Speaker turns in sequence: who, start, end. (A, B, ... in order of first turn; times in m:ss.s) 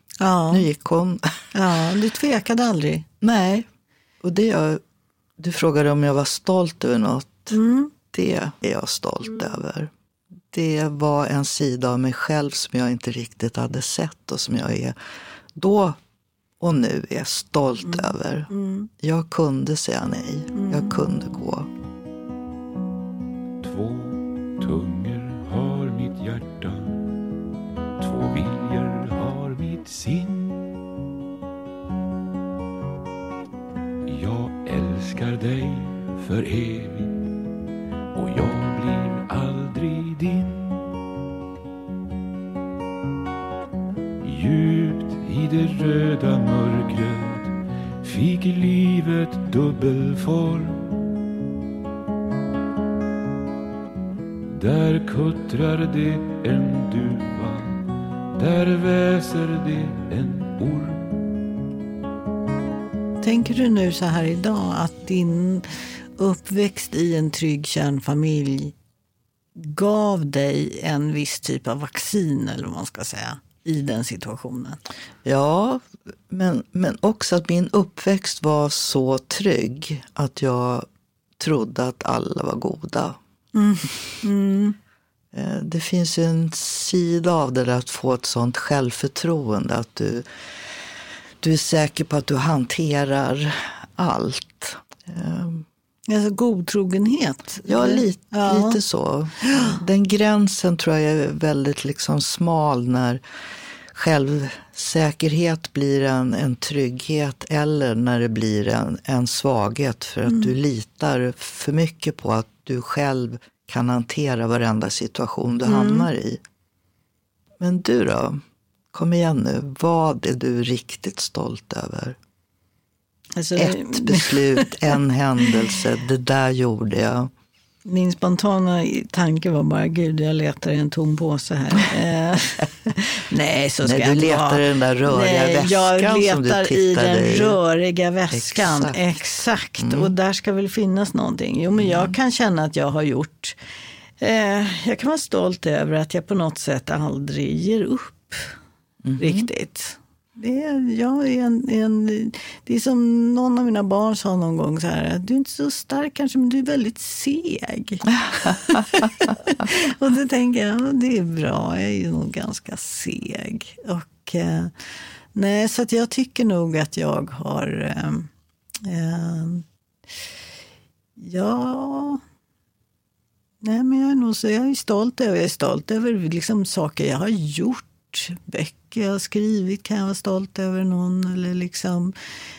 0:00.2-0:00.6 A
0:00.5-0:01.5 B
0:01.5-0:03.0 A
0:03.2-0:03.6 B
0:04.2-0:04.8 B
0:05.4-0:07.6 B
0:07.5-0:07.9 A
0:08.1-0:09.9 B
0:10.5-0:15.0 B
0:15.6-0:16.0 B
0:16.6-0:18.5 B
0:17.8-0:18.9 A
0:19.0-0:21.7 B
0:20.5-0:21.0 A
0:23.6-0:27.2 C
0:28.0-0:30.8 C
0:34.0-0:37.3 C
0:38.1-0:40.9 C
0:44.2-0:51.0 C
0:54.5-1:01.3 C
1:03.2-1:08.7 A
1:09.6-1:14.8 A
1:15.2-1:20.8 B
1:21.4-1:23.2 B
1:23.5-1:24.8 A
1:25.3-1:30.2 B
1:31.4-1:35.6 B
1:36.1-1:38.8 A
1:37.6-1:43.2 B
1:39.4-1:39.8 A
1:43.9-1:56.4 B
1:50.2-1:50.5 A
1:55.6-1:56.1 A
1:57.6-1:58.4 B
1:58.9-2:02.2 B
2:03.4-2:05.7 A
2:03.5-2:07.3 B
2:07.8-2:23.6 A
2:13.8-2:17.6 B
2:18.3-2:19.0 B
2:19.8-2:20.1 B
2:21.8-2:22.1 B
2:24.2-2:28.5 A
2:29.0-2:29.5 B
2:29.2-2:44.7 A
2:45.3-2:49.6 A
2:51.2-2:52.2 A
2:53.6-3:02.1 A